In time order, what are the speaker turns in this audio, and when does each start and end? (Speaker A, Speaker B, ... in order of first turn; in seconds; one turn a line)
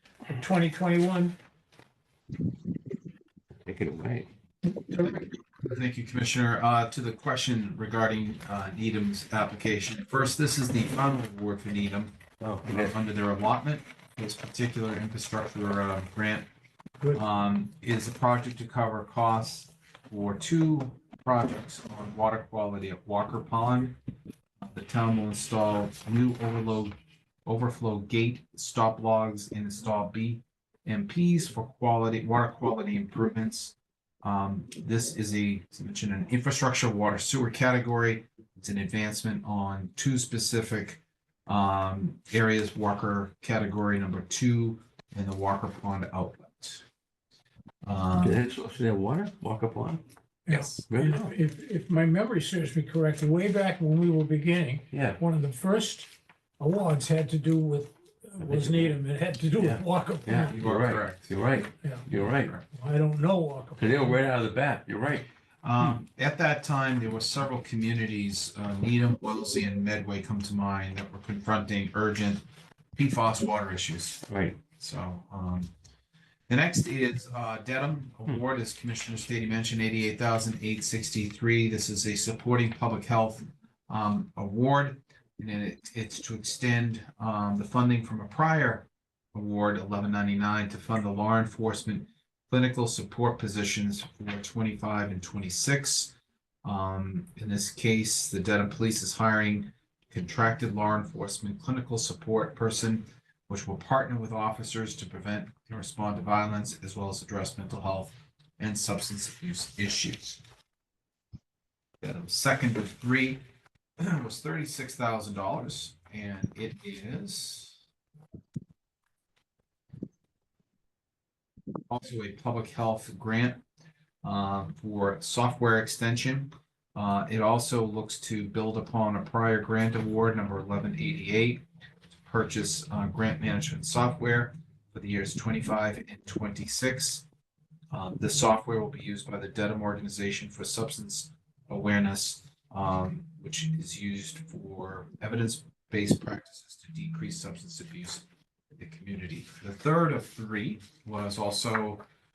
Speaker A: 0.3-1.4
Speaker B: 3.7-4.3
Speaker C: 4.9-16.5
Speaker B: 12.4-12.9
Speaker C: 17.1-24.0
Speaker C: 24.6-46.8
Speaker C: 47.8-48.4
Speaker B: 48.2-50.0
Speaker A: 50.5-60.6
Speaker C: 50.5-50.8
Speaker B: 50.6-51.3
Speaker B: 54.9-55.2
Speaker B: 58.4-59.0
Speaker B: 59.6-62.5
Speaker C: 60.5-61.3
Speaker A: 61.8-62.1
Speaker C: 62.1-62.6
Speaker A: 62.7-64.2
Speaker B: 63.8-65.3
Speaker C: 65.6-72.5
Speaker C: 73.0-74.2
Speaker B: 74.3-74.6
Speaker C: 74.8-75.7
Speaker C: 76.5-110.4
Speaker C: 112.0-113.4
Speaker C: 114.0-117.8
Speaker C: 121.9-123.6
Speaker C: 124.2-131.7
Speaker C: 132.2-137.3
Speaker C: 137.9-152.0